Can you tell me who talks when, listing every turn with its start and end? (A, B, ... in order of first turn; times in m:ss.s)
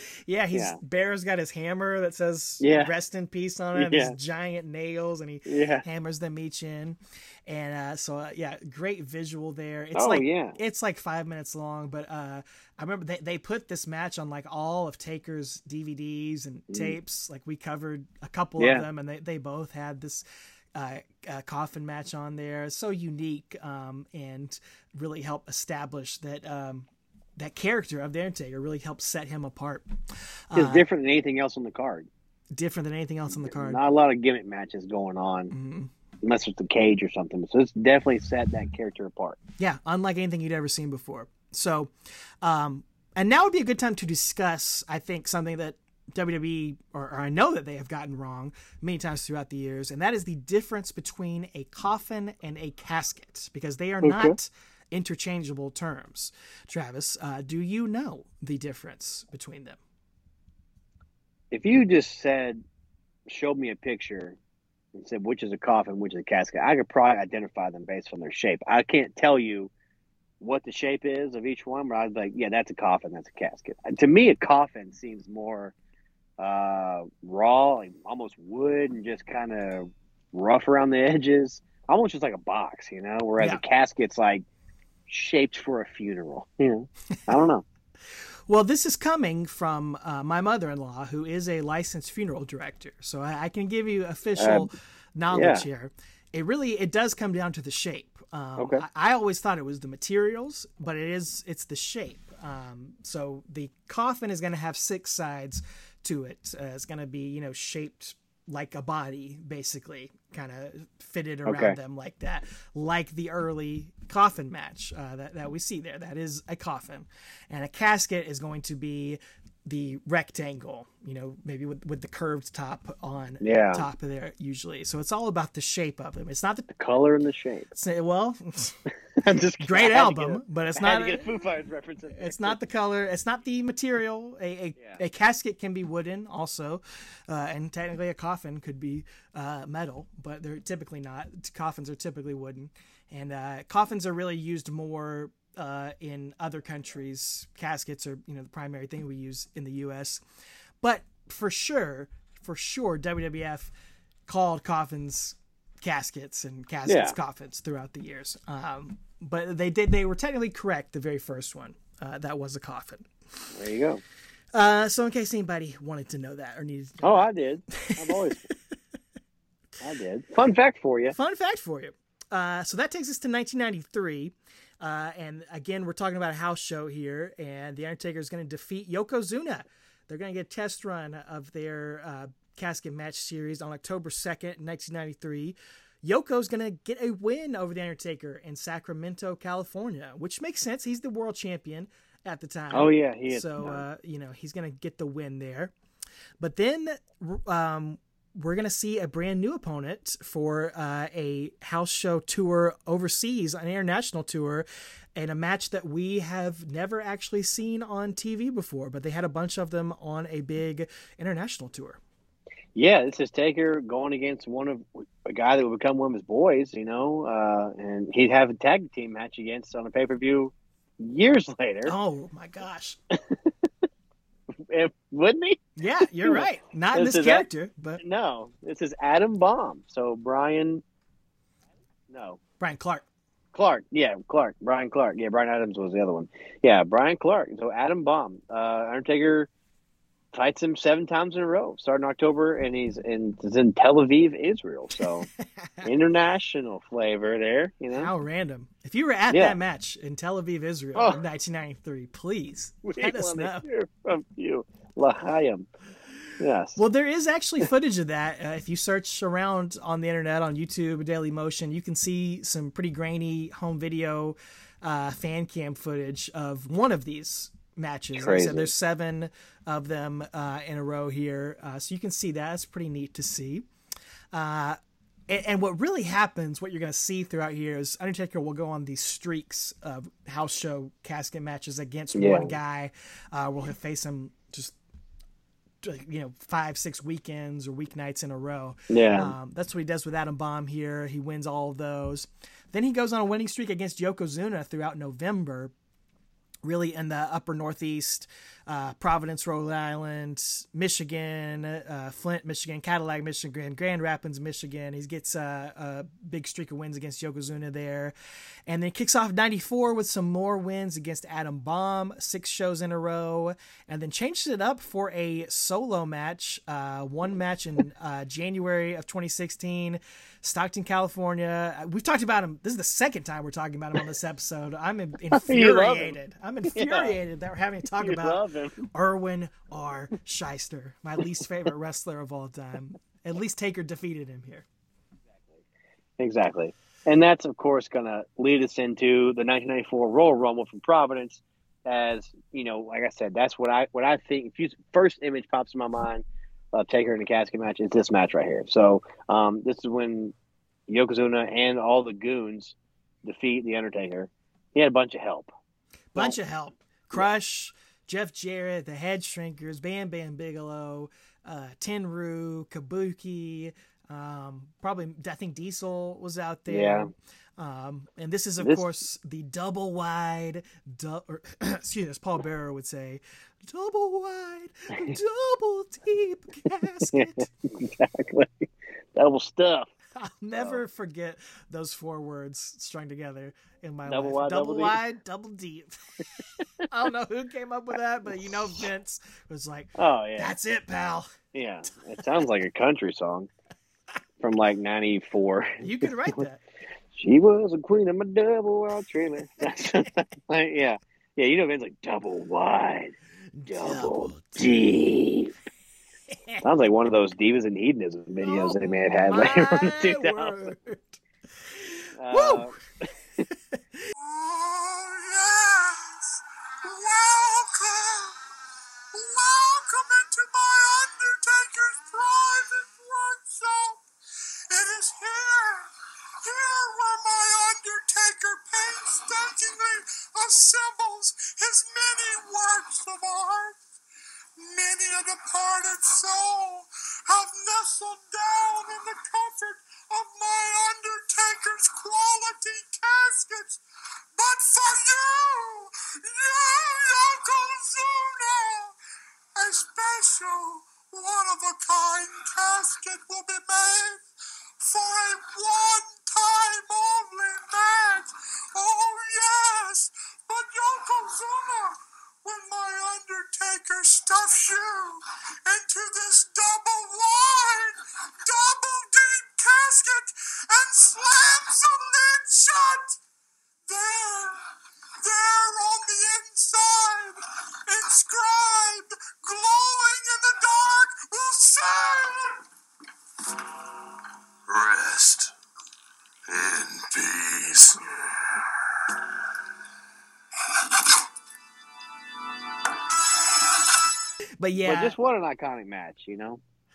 0:00.3-0:20.2 A
0:02.6-0:02.9 B
0:03.8-0:04.2 B
0:05.5-0:05.8 B
0:10.0-0:10.6 B
0:16.7-0:17.0 B
0:18.6-0:18.8 B
0:20.8-0:29.9 A
0:30.5-0:30.8 A
0:30.6-0:32.1 B
0:32.5-0:33.8 A
0:33.3-0:35.5 B
0:35.5-0:35.9 A
0:36.2-0:39.4 B
0:39.6-0:59.8 A
0:54.0-0:54.4 B
1:01.5-1:02.6 B
1:03.3-1:04.4 B
1:05.0-1:09.7 B
1:10.4-1:15.8 B
1:16.4-1:24.4 B
1:25.1-1:27.6 B
1:28.5-2:06.7 A
1:34.4-1:34.7 B
1:35.3-1:35.6 B
1:38.6-1:38.8 B
1:51.5-1:51.8 B
2:03.4-2:03.8 B
2:06.7-2:07.7 B
2:07.7-2:08.8 A
2:09.2-2:12.6 B
2:09.6-2:11.2 A
2:12.2-2:30.2 A
2:30.8-2:33.7 A
2:34.3-2:43.1 A
2:36.9-2:37.2 B
2:43.5-2:44.0 B
2:44.5-2:48.2 A
2:47.0-2:48.5 B
2:49.8-2:51.2 B
2:51.1-3:15.7 A
3:12.7-3:13.8 B
3:16.4-3:32.0 A
3:32.8-3:41.9 B
3:41.9-3:43.0 A
3:44.6-3:45.6 B
3:45.8-3:48.0 A
3:46.2-3:47.5 B
3:48.0-3:50.8 B
3:52.1-3:52.4 B
3:52.6-3:53.0 A
3:53.5-3:59.5 B
4:00.3-4:05.3 B
4:05.8-4:08.1 B
4:07.9-4:13.7 A
4:09.3-4:09.6 B
4:11.0-4:11.2 B
4:12.8-4:15.7 B
4:16.4-4:16.8 B
4:16.8-4:33.7 A
4:28.2-4:28.7 B
4:34.3-4:44.8 A
4:42.2-4:42.6 B
4:45.8-4:55.7 A
4:48.9-4:49.4 B
4:56.6-5:08.1 A
5:08.7-5:28.4 A
5:25.4-5:26.2 B
5:26.7-5:27.2 B
5:28.0-5:28.9 B
5:28.9-5:34.7 A
5:36.2-5:50.3 B
5:50.9-5:55.5 B
5:56.1-6:17.5 A
6:06.7-6:07.1 B
6:08.6-6:08.9 B
6:17.1-6:19.9 B
6:20.2-6:31.3 A
6:20.6-6:20.8 B
6:24.1-6:25.0 B
6:30.0-6:30.5 B
6:31.5-6:33.5 B
6:34.4-6:36.4 B
6:35.8-6:36.6 A
6:37.2-6:43.2 B
6:43.6-6:44.6 A
6:43.7-6:45.5 B
6:46.3-6:46.6 A
6:46.6-6:50.7 B
6:48.5-6:51.2 A
6:51.7-6:52.7 A
6:52.2-6:53.1 B
6:53.8-6:54.1 A
6:54.4-6:55.4 C
6:55.6-6:56.0 A
6:56.8-6:58.2 C
6:59.1-7:04.0 C
7:04.7-7:05.9 C
7:06.4-7:13.8 C
7:14.6-7:23.8 C
7:24.4-7:28.9 C
7:29.6-7:34.2 C
7:34.8-7:53.1 C
7:53.9-7:54.6 C
7:55.2-8:02.5 C
8:04.7-8:05.5 D
8:06.5-8:08.0 D
8:14.6-8:15.2 A
8:14.8-8:16.6 B